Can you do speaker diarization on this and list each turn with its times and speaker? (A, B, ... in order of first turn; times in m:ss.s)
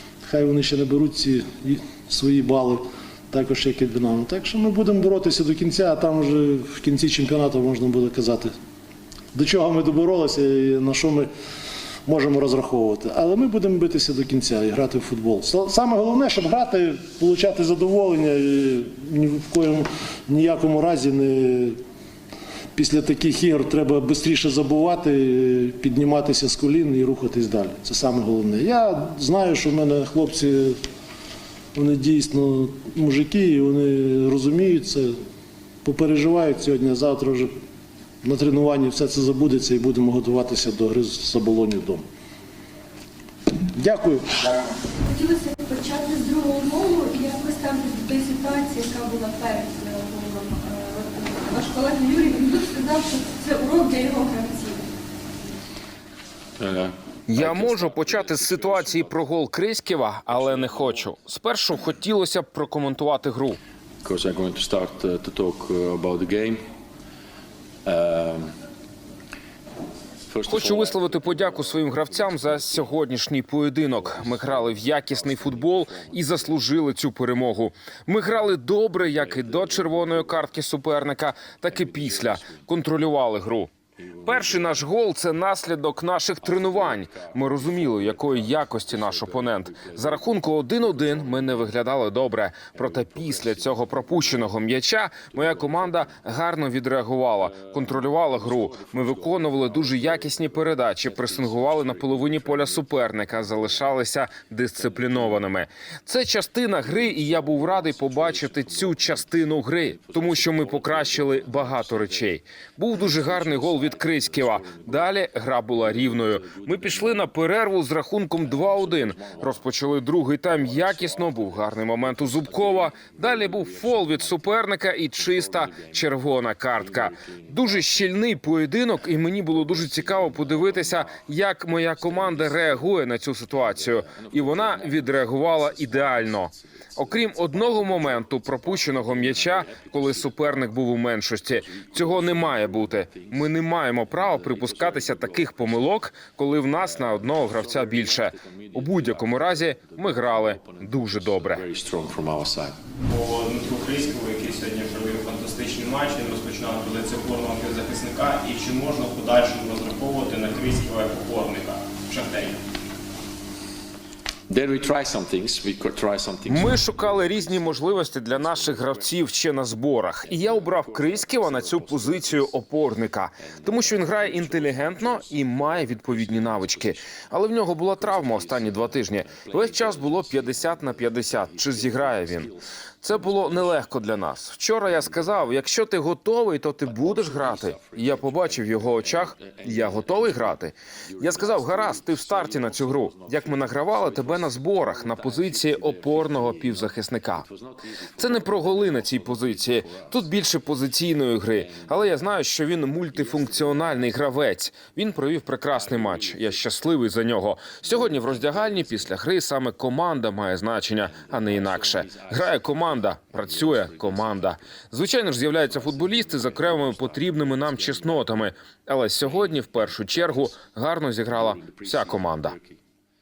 0:00.2-0:08.5 A
0:09.3-0:11.3 A
0:12.0-0:21.8 A
0:22.7-0:30.8 A
0:31.7-0:35.1 A
0:35.8-0:37.5 A
0:38.2-0:42.0 A
0:43.7-0:44.2 A
0:45.1-0:54.8 B
0:56.6-0:59.2 C
0:57.3-1:03.6 D
1:00.3-1:01.1 C
1:04.0-1:06.6 C
1:07.8-1:08.5 C
1:10.3-1:13.0 C
1:10.5-1:23.7 D
1:13.9-1:16.6 C
1:19.0-1:20.5 C
1:21.7-1:22.6 C
1:24.0-1:24.9 C
1:24.2-2:31.7 D
1:26.4-1:31.8 C
1:32.8-1:34.6 C
1:35.3-1:36.3 C
1:37.4-1:43.9 C
1:44.8-1:45.5 C
1:46.8-1:52.4 C
1:52.9-1:55.1 C
1:55.8-1:57.3 C
1:58.4-1:59.6 C
2:00.4-2:04.6 C
2:05.2-2:06.1 C
2:06.8-2:08.0 C
2:09.5-2:11.2 C
2:12.0-2:12.9 C
2:13.6-2:20.7 C
2:21.5-2:25.9 C
2:26.7-2:32.7 C
2:33.0-2:42.6 E
2:44.5-2:49.2 C
2:46.4-3:17.5 D
2:50.2-2:52.6 C
2:53.5-2:57.1 C
2:57.8-3:03.8 C
3:04.8-3:05.6 C
3:06.8-3:20.2 C
3:18.2-3:42.6 D
3:21.5-3:22.3 C
3:23.1-3:24.2 C
3:25.7-3:26.7 C
3:27.8-3:29.1 C
3:31.0-3:34.5 C
3:35.4-3:38.4 C
3:39.2-3:40.4 C
3:41.3-3:42.7 C